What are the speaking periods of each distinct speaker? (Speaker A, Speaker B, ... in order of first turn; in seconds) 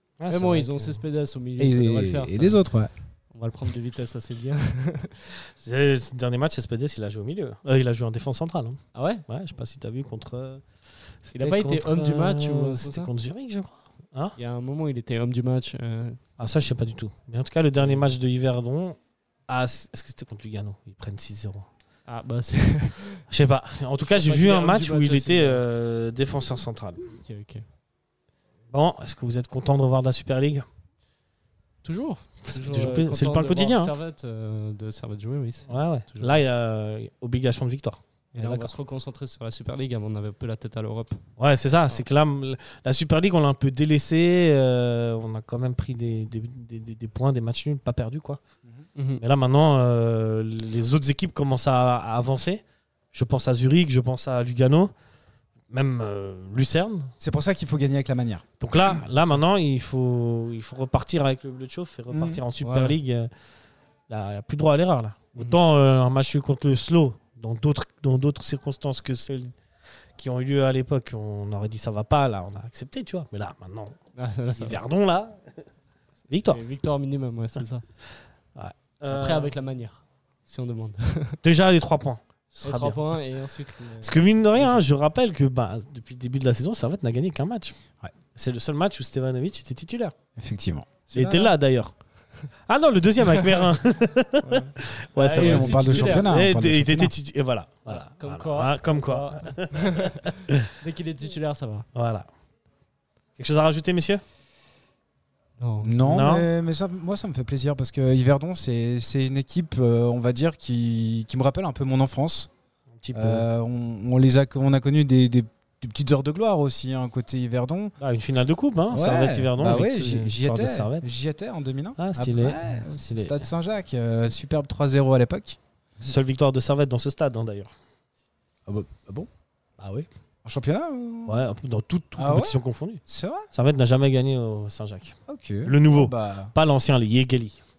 Speaker A: 0.2-1.0, 5.5-10.6, 11.2-14.3, 16.4-21.7, 23.3-27.1, 28.7-30.6, 32.5-33.9, 35.7-38.7, 41.4-48.4, 49.1-54.9, 55.7-57.1, 58.6-63.3, 64.1-69.5, 70.2-74.0, 74.5-75.6, 76.3-76.6, 78.5-79.5, 81.4-83.1, 84.0-87.7, 88.3-90.1, 91.1-91.9, 92.7-100.2, 101.9-102.3, 103.4-104.2, 106.1-106.5, 113.0-113.5, 118.0-121.1, 122.0-123.5, 126.0-127.7, 129.8-130.1, 131.2-137.6
Speaker B: 0.3-2.6, 3.3-5.2, 8.9-9.2, 11.3-13.1, 14.3-16.2, 17.8-18.1, 22.1-23.2, 24.0-25.6, 27.1-27.6, 31.8-36.4, 38.4-41.2, 49.0-49.2, 62.6-63.0, 74.2-74.8, 76.5-77.8, 79.1-81.4, 82.6-84.8, 94.4-96.3, 97.9-101.8, 105.6-106.2
Speaker C: 1.6-2.9, 57.2-58.4, 62.1-62.4, 90.3-91.5, 95.3-97.1, 105.8-112.5, 113.1-117.9, 118.9-125.6, 128.7-129.3, 130.4-131.5, 132.2-133.5, 135.3-136.5